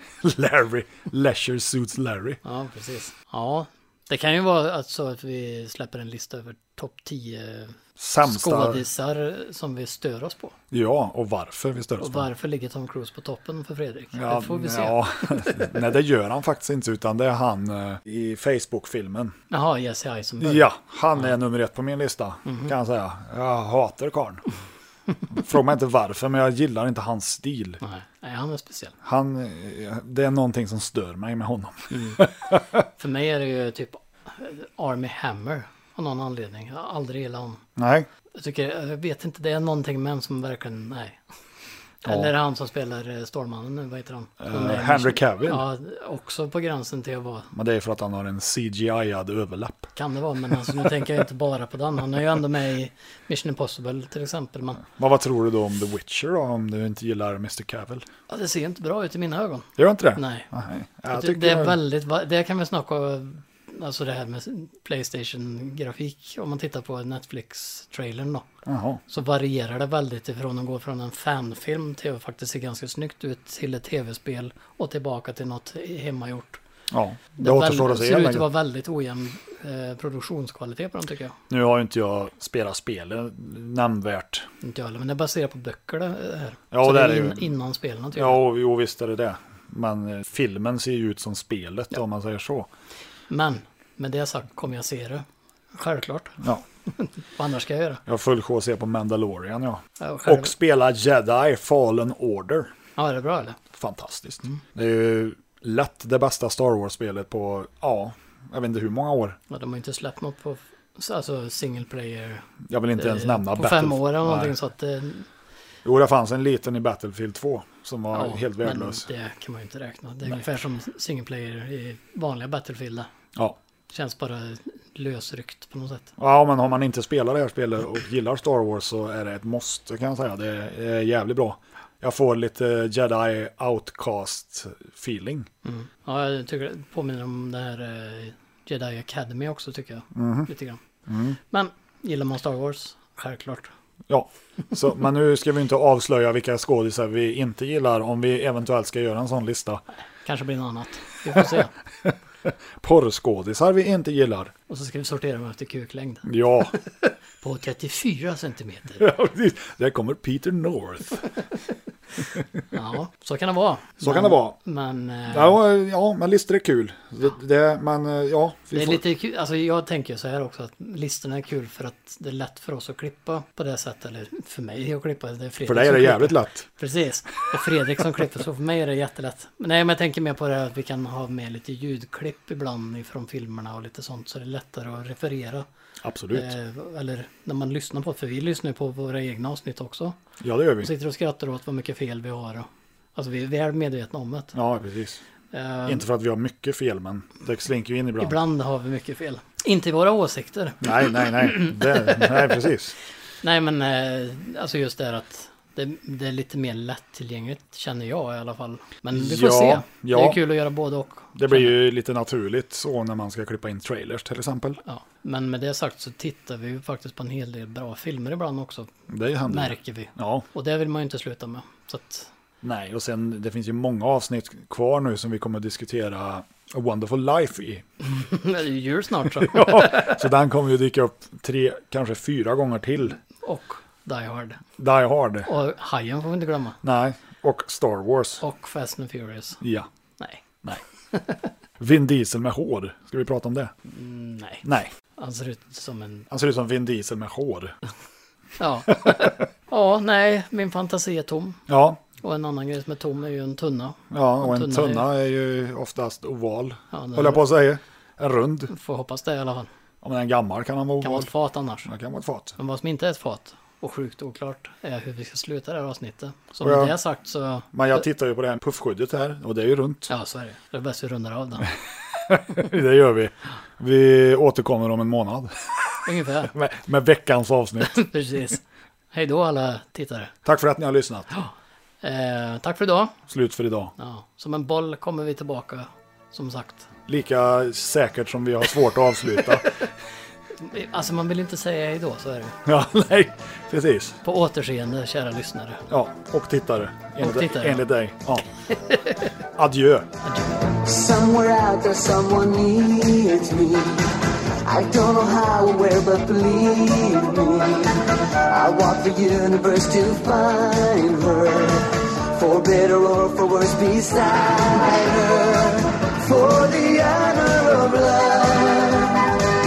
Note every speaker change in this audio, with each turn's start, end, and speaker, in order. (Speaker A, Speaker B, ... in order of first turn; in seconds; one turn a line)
Speaker A: 0.2-2.4
Speaker B: 2.4-10.6
Speaker A: 8.0-8.8
Speaker A: 10.7-12.3
Speaker B: 12.0-15.8
Speaker A: 14.1-19.4
Speaker B: 19.5-21.3
Speaker A: 20.4-24.4
Speaker B: 22.5-22.7
Speaker A: 25.4-27.8
Speaker B: 27.8-28.9
Speaker A: 29.0-32.8
Speaker B: 31.9-32.2
Speaker B: 33.0-37.6
Speaker A: 37.8-38.1
Speaker B: 38.3-41.2
Speaker B: 42.0-47.5
Speaker A: 42.0-42.3
Speaker A: 44.4-45.6
Speaker A: 47.5-49.9
Speaker B: 50.0-54.8
Speaker A: 54.8-58.1
Speaker B: 58.3-60.5
Speaker A: 59.8-61.8
Speaker B: 61.1-68.5
Speaker A: 68.7-69.0
Speaker B: 69.1-76.6
Speaker A: 76.9-78.5
Speaker B: 77.4-81.4
Speaker A: 81.5-84.5
Speaker B: 84.6-88.4
Speaker A: 86.7-87.5
Speaker A: 88.2-92.7
Speaker B: 93.3-96.4
Speaker B: 97.0-98.0
Speaker A: 98.1-102.7
Speaker B: 100.0-100.5
Speaker B: 103.0-103.6
Speaker A: 103.7-109.4
Speaker B: 109.5-115.3
Speaker A: 112.7-114.5
Speaker A: 115.8-119.1
Speaker B: 118.1-123.1
Speaker B: 123.9-126.1
Speaker A: 126.2-135.5
Speaker B: 135.6-140.8
Speaker A: 140.1-140.5
Speaker A: 141.1-141.4
Speaker B: 141.5-143.7
Speaker A: 144.1-149.8
Speaker B: 150.2-151.7
Speaker A: 151.3-154.5
Speaker B: 154.7-156.8
Speaker A: 156.2-156.7
Speaker B: 157.4-159.0
Speaker A: 159.0-161.2
Speaker B: 162.7-165.6
Speaker A: 164.0-164.6
Speaker A: 165.3-169.0
Speaker B: 168.7-185.7
Speaker A: 175.7-176.7
Speaker A: 186.0-186.5
Speaker B: 186.3-190.2
Speaker A: 190.4-190.9
Speaker B: 190.8-194.6
Speaker A: 194.6-195.2
Speaker B: 195.5-196.0
Speaker A: 195.9-198.4
Speaker B: 198.2-202.5
Speaker A: 200.8-202.9
Speaker B: 203.4-211.7
Speaker A: 209.1-210.4
Speaker A: 211.4-214.8
Speaker B: 214.8-218.9
Speaker A: 219.1-220.5
Speaker B: 219.5-222.3
Speaker A: 222.6-227.8
Speaker B: 228.0-230.2
Speaker A: 229.4-233.2
Speaker B: 233.4-234.6
Speaker A: 234.8-235.5
Speaker B: 235.5-236.8
Speaker A: 236.8-238.4
Speaker B: 238.4-239.6
Speaker A: 239.6-239.9
Speaker B: 241.1-241.5
Speaker A: 241.8-243.7
Speaker B: 243.9-244.6
Speaker A: 244.6-244.9
Speaker B: 245.2-246.3
Speaker A: 246.3-247.7
Speaker B: 248.6-251.6
Speaker A: 249.0-249.4
Speaker A: 251.7-252.0
Speaker B: 252.2-255.1
Speaker A: 254.1-258.7
Speaker B: 256.9-257.4
Speaker B: 258.7-259.7
Speaker A: 260.0-261.3
Speaker B: 261.0-261.9
Speaker A: 261.9-262.6
Speaker B: 262.6-268.0
Speaker A: 266.6-266.9
Speaker A: 267.7-270.1
Speaker B: 270.1-271.7
Speaker A: 271.7-278.0
Speaker B: 276.1-276.5
Speaker B: 277.9-280.3
Speaker A: 280.4-281.3
Speaker B: 281.3-283.2
Speaker A: 283.3-283.9
Speaker B: 284.0-286.9
Speaker A: 287.1-289.7
Speaker B: 290.6-292.6
Speaker A: 292.7-294.2
Speaker B: 294.2-295.9
Speaker A: 295.9-298.5
Speaker B: 297.2-297.9
Speaker B: 298.9-299.3
Speaker A: 299.6-300.1
Speaker B: 300.2-300.7
Speaker C: 300.9-319.3